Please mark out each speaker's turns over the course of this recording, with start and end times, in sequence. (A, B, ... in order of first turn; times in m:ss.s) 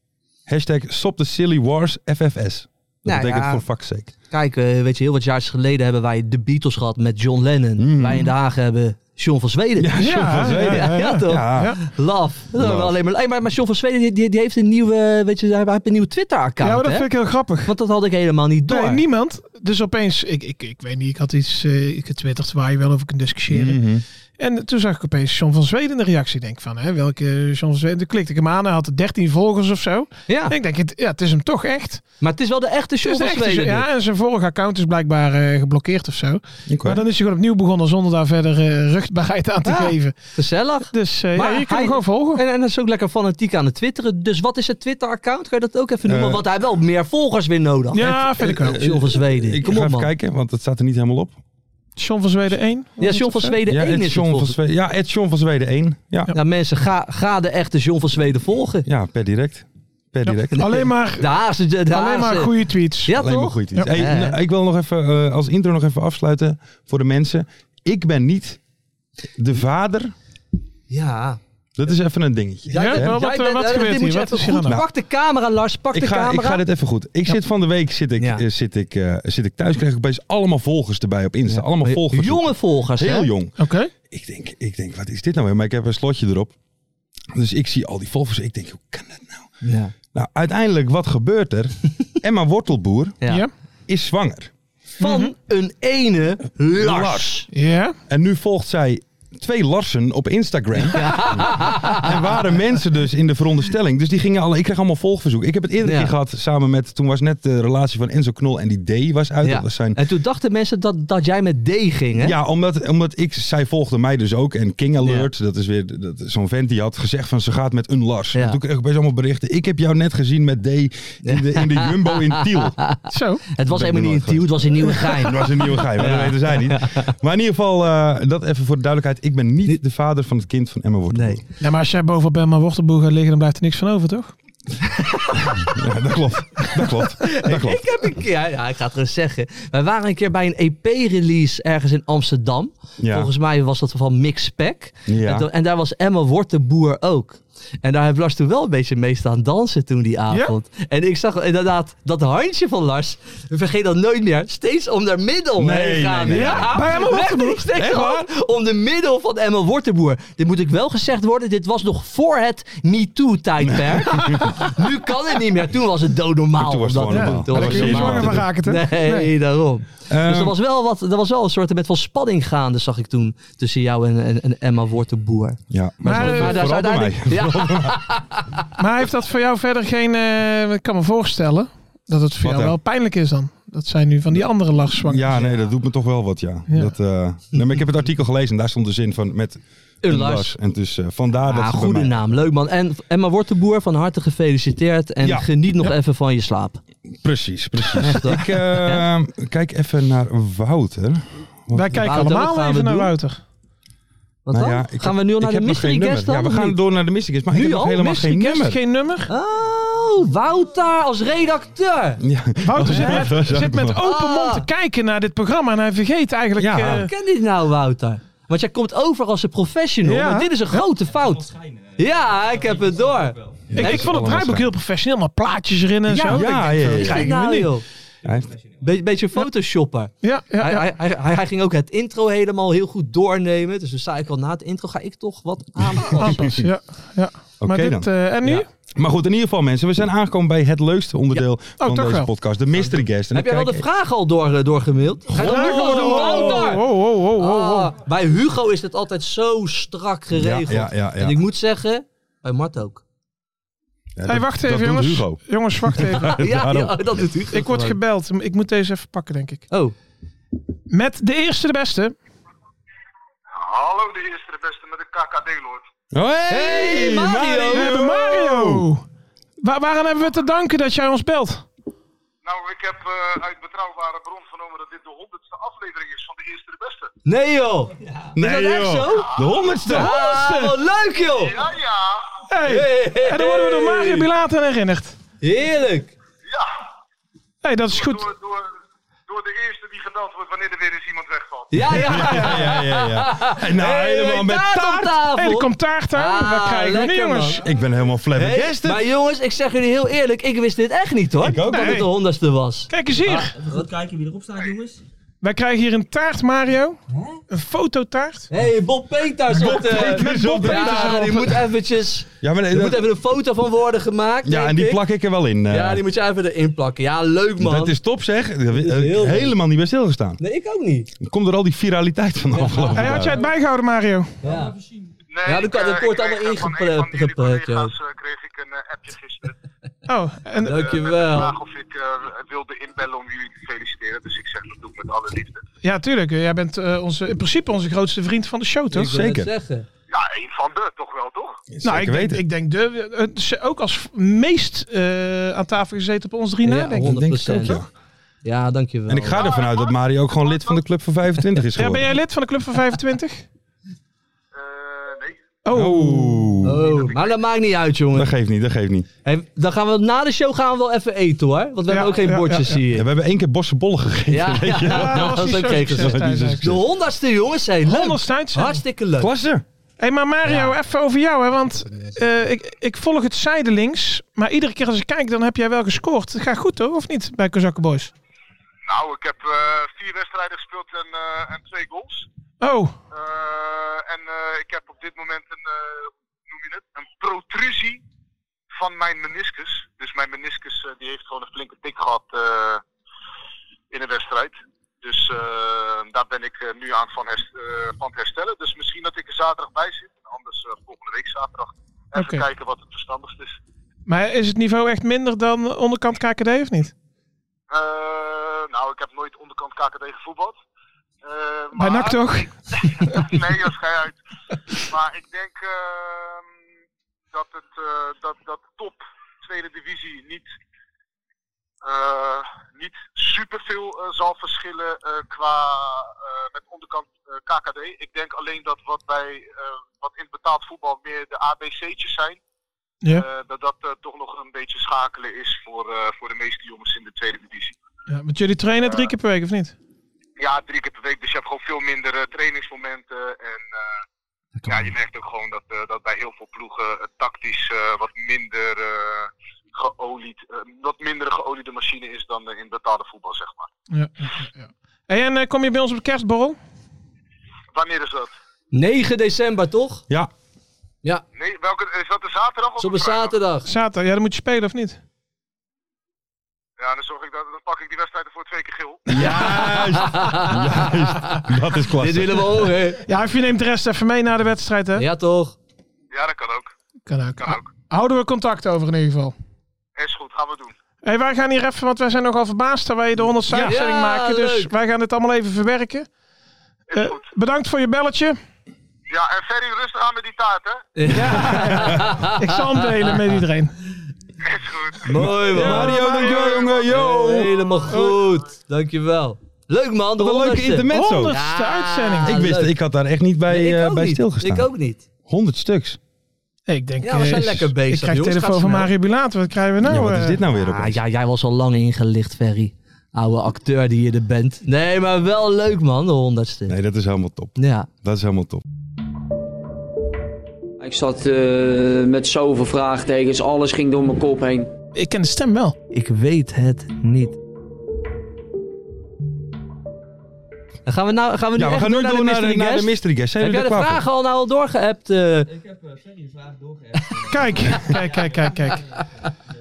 0:00.5-0:04.1 A
0:03.0-0:03.6 B
0:04.3-0:17.1 B
0:07.8-0:08.3 A
0:09.8-0:11.8 A
0:10.0-0:11.8 C
0:12.6-0:13.0 A
0:16.6-0:17.7 C
0:17.6-0:19.0 B
0:18.7-0:23.8 C
0:23.5-0:24.0 A
0:24.4-0:32.0 C
0:30.3-0:30.6 B
0:32.2-0:33.9 B
0:33.0-0:40.2 C
0:36.7-0:37.0 A
0:39.6-0:50.1 B
0:40.9-0:42.4 C
0:46.1-0:46.4 A
0:47.9-0:48.9 C
0:48.1-0:51.4 A
0:52.0-0:53.6 C
0:53.0-0:54.6 B
0:53.6-0:56.3 A
0:56.3-0:58.9 B
0:58.9-1:00.7 A
1:00.5-1:02.5 B
1:00.6-1:01.3 C
1:01.9-1:03.1 C
1:03.0-1:04.4 B
1:03.1-1:08.6 A
1:09.4-1:10.1 A
1:10.9-1:11.4 B
1:11.8-1:13.2 A
1:12.7-1:16.6 B
1:12.8-1:14.8 C
1:15.9-1:23.6 A
1:18.2-1:18.4 B
1:21.5-1:23.3 B
1:23.6-1:23.9 C
1:24.1-1:26.6 A
1:27.3-1:29.5 A
1:29.6-1:29.9 B
1:30.1-1:33.2 A
1:33.9-1:34.5 A
1:35.0-1:37.5 B
1:35.0-1:35.3 C
1:36.7-1:37.4 A
1:37.5-1:38.0 C
1:38.1-1:50.0 A
1:40.9-1:42.1 B
1:45.8-1:46.1 B
1:49.4-1:52.4 B
1:52.2-2:02.8 A
1:55.0-1:55.3 B
2:01.2-2:07.1 B
2:03.1-2:03.4 C
2:03.6-2:11.4 A
2:11.1-2:11.4 B
2:11.6-2:14.3 C
2:14.9-2:15.7 B
2:15.4-2:17.9 A
2:17.2-2:58.6 B
2:23.0-2:23.3 A
2:25.1-2:25.5 A
2:35.6-2:36.8 A
2:36.3-2:38.0 C
2:37.8-2:38.3 A
2:43.6-2:44.6 A
2:46.6-2:48.5 A
2:47.1-2:49.3 C
2:50.1-2:50.5 A
2:55.7-2:58.0 A
2:56.0-2:56.7 C
2:58.8-3:05.4 C
3:02.4-3:02.8 A
3:05.0-3:12.2 A
3:06.7-3:06.9 C
3:10.0-3:10.6 B
3:11.5-3:16.8 B
3:15.2-3:15.5 A
3:17.2-3:22.0 A
3:18.0-3:19.0 B
3:21.7-3:23.4 C
3:21.9-3:23.1 B
3:24.5-3:26.8 B
3:24.5-3:28.8 A
3:27.5-3:28.0 B
3:28.0-3:29.3 C
3:29.3-3:32.2 B
3:32.2-3:34.0 A
3:32.6-3:37.1 C
3:34.0-3:34.7 B
3:36.6-3:37.1 A
3:37.0-3:44.1 B
3:40.0-3:40.8 C
3:43.7-3:44.7 A
3:43.8-3:47.7 C
3:46.1-3:47.8 B
3:46.3-3:47.3 A
3:48.2-3:48.5 A
3:48.8-3:56.5 B
3:50.2-3:50.9 C
3:56.0-3:58.7 C
3:56.2-3:56.7 A
3:57.6-4:03.8 A
4:01.8-4:02.3 C
4:02.8-4:13.0 B
4:05.3-4:06.7 A
4:05.3-4:07.9 C
4:10.3-4:11.4 A
4:14.2-4:17.2 A
4:14.3-4:16.4 C
4:16.2-4:18.0 B
4:17.5-4:19.6 C
4:20.9-4:22.2 C
4:23.5-4:25.8 D
4:26.1-4:28.9 A
4:26.5-4:27.9 B
4:27.7-4:29.0 C
4:29.6-4:31.7 C
4:32.4-4:37.1 D
4:37.3-4:39.3 B
4:38.4-4:40.2 A
4:39.8-4:40.7 C
4:39.9-4:41.6 B
4:41.4-4:42.4 D
4:42.5-4:45.2 C
4:42.6-4:44.3 B
4:45.4-4:46.1 B
4:46.5-4:46.8 D
4:47.6-4:48.3 C
4:47.9-4:48.7 D
4:49.3-4:51.8 D
4:51.7-4:57.6 B
4:51.9-4:55.1 A
4:52.0-4:52.7 C
4:55.0-4:57.6 C
4:57.6-4:59.0 A
4:58.4-5:05.0 B
5:01.4-5:02.1 A
5:01.7-5:02.1 C
5:02.9-5:03.6 C
5:05.4-5:07.0 C
5:07.1-5:07.4 B
5:07.5-5:08.5 C
5:08.5-5:15.0 B
5:09.5-5:11.5 A
5:09.6-5:11.6 C
5:12.4-5:13.1 A
5:14.4-5:16.0 A
5:15.7-5:18.0 B
5:17.6-5:20.4 A
5:18.8-5:19.6 B
5:20.4-5:21.1 B
5:21.2-5:23.4 A
5:22.5-5:23.3 B
5:23.0-5:24.4 C
5:24.4-5:24.8 B
5:25.3-5:29.6 D
5:25.4-5:27.9 B
5:30.1-5:31.1 C
5:30.6-5:31.6 B
5:30.7-5:35.6 D
5:35.8-5:39.1 C
5:38.9-5:39.9 B
5:39.0-5:39.5 A
5:40.1-5:41.6 D
5:41.7-5:42.4 A
5:41.8-5:47.2 C
5:46.6-5:47.8 B
5:47.0-5:47.9 A
5:48.4-5:49.5 B
5:49.1-5:52.1 A
5:49.4-5:50.8 D
5:51.8-5:53.5 C
5:54.5-5:55.4 D
5:55.6-5:56.6 C
5:55.7-5:56.8 A
5:56.6-5:58.3 B
5:56.9-5:57.3 D
5:58.1-5:59.1 A
5:59.2-6:03.0 B
6:01.9-6:02.8 C
6:02.9-6:06.8 A
6:04.3-6:09.3 B
6:04.8-6:06.6 C
6:07.9-6:08.8 C
6:09.2-6:09.6 A
6:10.0-6:18.1 C
6:10.4-6:10.8 B
6:18.8-6:22.3 D
6:22.6-6:23.0 C
6:23.1-6:28.0 D
6:28.7-6:32.8 D
6:33.9-6:43.6 D
6:42.2-6:42.4 C
6:44.1-6:46.9 C
6:47.7-6:50.6 D
6:51.2-6:54.2 D
6:51.8-6:52.5 C
6:54.7-6:56.5 D
6:57.3-7:00.5 D
7:01.8-7:12.4 D
7:13.1-7:17.8 D
7:18.1-7:19.8 C
7:18.8-7:19.1 D
7:20.4-7:24.0 D
7:24.6-7:24.9 B
7:24.7-7:33.7 D
7:33.9-7:36.6 C
7:37.7-7:38.3 D
7:38.7-7:40.0 B
7:41.4-7:43.4 D
7:42.8-7:43.7 B
7:43.7-7:45.0 C
7:46.8-7:49.2 D
7:49.1-7:52.7 A
7:49.2-7:51.5 B
7:52.0-7:53.0 B
7:53.1-7:55.0 C
7:55.0-7:55.6 B
7:56.1-7:56.7 D
7:57.1-7:59.4 C
7:57.4-7:57.7 D
8:00.0-8:00.7 D
8:01.0-8:06.1 C
8:03.5-8:03.8 A
8:03.6-8:04.7 B
8:06.9-8:07.3 D
8:06.9-8:08.4 C
8:09.1-8:10.9 D
8:11.0-8:13.2 B
8:11.1-8:13.7 C
8:14.4-8:15.1 D
8:15.1-8:22.7 B
8:15.2-8:17.5 A
8:15.5-8:16.7 C
8:16.2-8:16.8 D
8:17.9-8:18.2 C
8:20.2-8:21.4 A
8:20.9-8:22.4 C
8:22.2-8:24.7 A
8:23.5-8:25.0 B
8:25.3-8:26.0 A
8:26.7-8:30.4 C
8:27.0-8:28.9 B
8:29.8-8:31.0 A
8:30.5-8:36.8 B
8:36.7-8:38.6 A
8:37.6-8:37.9 B
8:40.8-8:44.7 E
8:44.9-8:45.8 C
8:45.9-8:47.4 B
8:50.9-8:55.6 B
8:51.6-8:54.0 A
8:57.2-8:57.8 B
8:57.2-8:58.9 C